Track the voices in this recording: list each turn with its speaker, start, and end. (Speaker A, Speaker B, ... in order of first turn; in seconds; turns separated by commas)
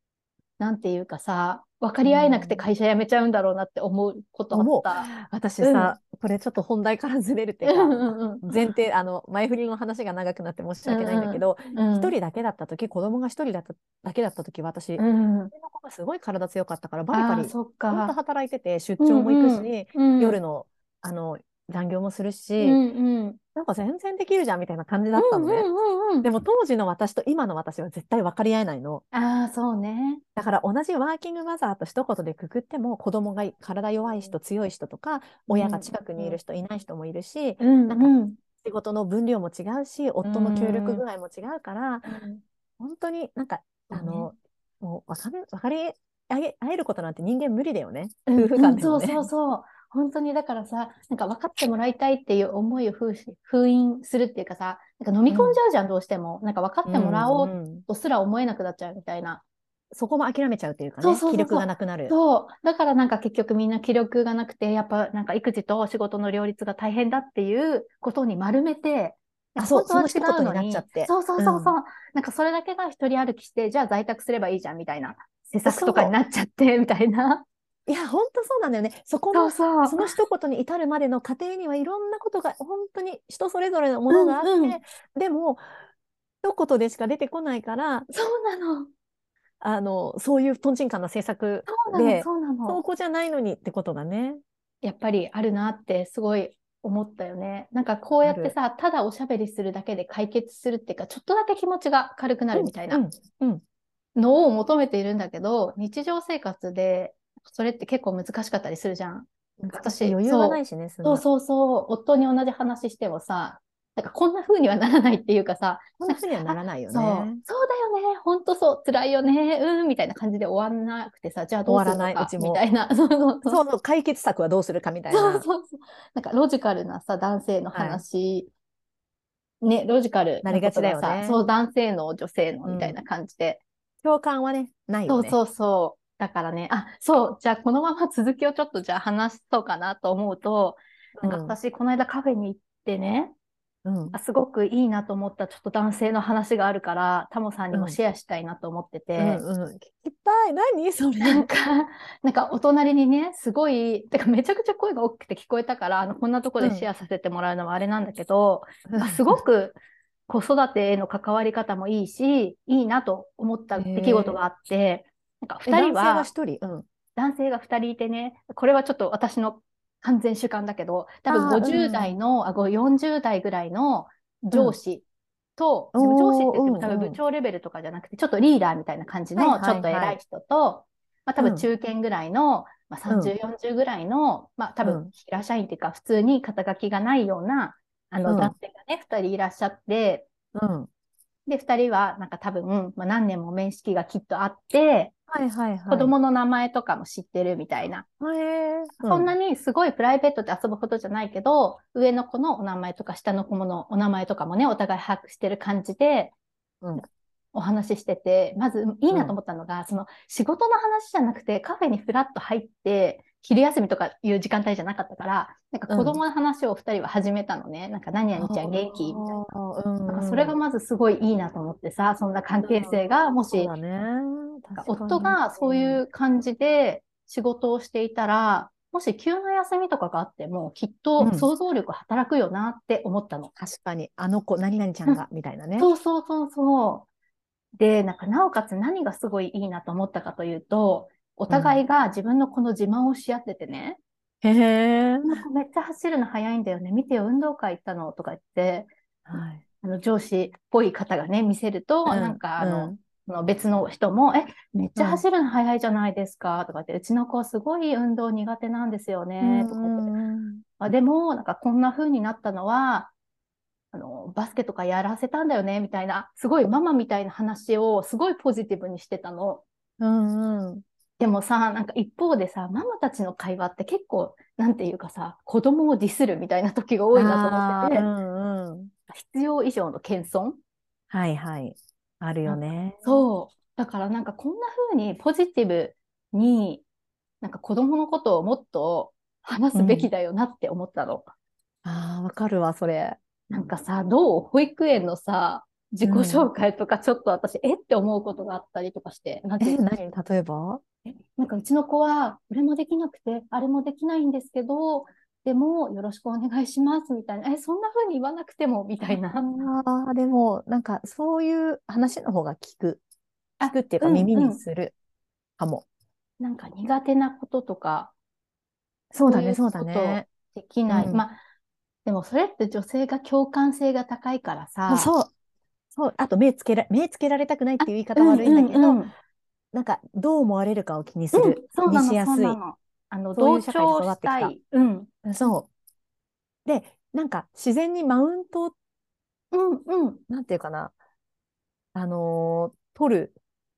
Speaker A: 0.6-5.1, Speaker B: 2.0-2.7, Speaker B: 4.5-22.8, Speaker A: 5.6-6.0, Speaker A: 7.6-8.5, Speaker A: 10.8-12.2, Speaker A: 15.0-15.5, Speaker A: 17.1-18.1, Speaker A: 19.0-20.4, Speaker A: 22.6-23.4, Speaker B: 23.6-25.7, Speaker A: 25.2-26.3, Speaker B: 26.2-29.0, Speaker A: 29.1-30.2, Speaker B: 30.4-42.1, Speaker A: 35.5-36.4, Speaker A: 37.6-38.4, Speaker A: 40.2-41.0, Speaker A: 42.0-42.4, Speaker B: 42.8-49.3, Speaker A: 43.9-44.3, Speaker A: 48.3-59.4, Speaker B: 55.3-55.6, Speaker B: 56.9-57.9, Speaker B: 59.9-62.1, Speaker A: 61.0-77.5, Speaker B: 69.6-71.8, Speaker B: 75.7-76.1, Speaker B: 77.9-85.6, Speaker A: 79.3-80.1, Speaker A: 84.1-84.8, Speaker B: 86.4-88.1, Speaker A: 88.1-88.9, Speaker B: 89.6-94.4, Speaker A: 91.7-92.8, Speaker A: 94.8-103.0, Speaker B: 98.2-98.5, Speaker B: 102.5-103.6, Speaker A: 104.2-123.6, Speaker B: 109.6-111.2, Speaker B: 116.0-117.4, Speaker B: 121.7-122.6, Speaker B: 123.5-125.5, Speaker A: 125.1-128.5, Speaker B: 127.7-128.0, Speaker A: 129.6-133.6, Speaker B: 130.4-131.4, Speaker B: 132.7-133.0, Speaker B: 134.0-135.4, Speaker A: 135.1-143.3, Speaker B: 141.2-141.6, Speaker B: 143.8-144.2, Speaker A: 144.1-149.4, Speaker B: 147.7-148.0, Speaker B: 149.2-151.5, Speaker A: 151.2-159.8, Speaker B: 156.6-156.9, Speaker B: 158.9-159.4, Speaker A: 160.3-166.3, Speaker B: 163.8-164.4, Speaker B: 165.7-166.9, Speaker A: 167.2-175.1, Speaker B: 171.3-172.2, Speaker A: 175.6-190.3, Speaker B: 175.9-177.2, Speaker B: 179.4-180.2, Speaker B: 181.4-181.7, Speaker B: 183.1-183.3, Speaker B: 184.8-185.1, Speaker B: 188.3-188.5, Speaker B: 190.6-190.9, Speaker A: 191.5-195.1, Speaker B: 195.3-196.1, Speaker A: 195.9-198.1, Speaker B: 198.2-199.3, Speaker A: 199.0-206.3, Speaker A: 207.5-219.2, Speaker B: 209.1-209.3, Speaker B: 215.9-216.2, Speaker B: 218.4-220.6, Speaker A: 220.1-223.7, Speaker B: 222.6-226.0, Speaker A: 224.8-233.5, Speaker B: 231.2-231.5, Speaker B: 233.6-235.9, Speaker A: 235.8-237.1, Speaker A: 237.8-244.0, Speaker B: 241.5-241.8, Speaker B: 244.4-245.4, Speaker A: 245.3-260.1, Speaker B: 249.3-249.6, Speaker B: 252.1-253.0, Speaker B: 255.0-255.2, Speaker B: 259.4-260.6, Speaker A: 260.8-263.1, Speaker A: 263.9-269.6, Speaker B: 270.0-270.8, Speaker A: 271.2-278.1, Speaker B: 277.1-278.9, Speaker A: 279.1-280.6, Speaker B: 281.1-283.2, Speaker A: 282.5-286.9, Speaker A: 287.4-291.3, Speaker B: 289.8-290.1, Speaker B: 291.8-293.2, Speaker A: 293.5-299.8, Speaker B: 296.0-296.5, Speaker B: 299.6-300.8, Speaker A: 301.4-309.7, Speaker B: 309.1-313.0, Speaker A: 313.6-314.6, Speaker B: 313.6-314.9, Speaker B: 315.6-315.9, Speaker A: 316.4-318.1, Speaker B: 319.1-320.3, Speaker A: 319.2-321.4, Speaker B: 320.9-321.2, Speaker A: 322.1-325.1, Speaker B: 324.9-325.3, Speaker B: 325.9-329.0, Speaker A: 327.8-329.1, Speaker B: 329.7-332.6, Speaker A: 331.3-335.1, Speaker B: 333.4-334.5, Speaker B: 335.2-335.7, Speaker B: 336.7-338.7, Speaker A: 339.5-340.2, Speaker B: 340.3-340.9, Speaker B: 341.9-343.4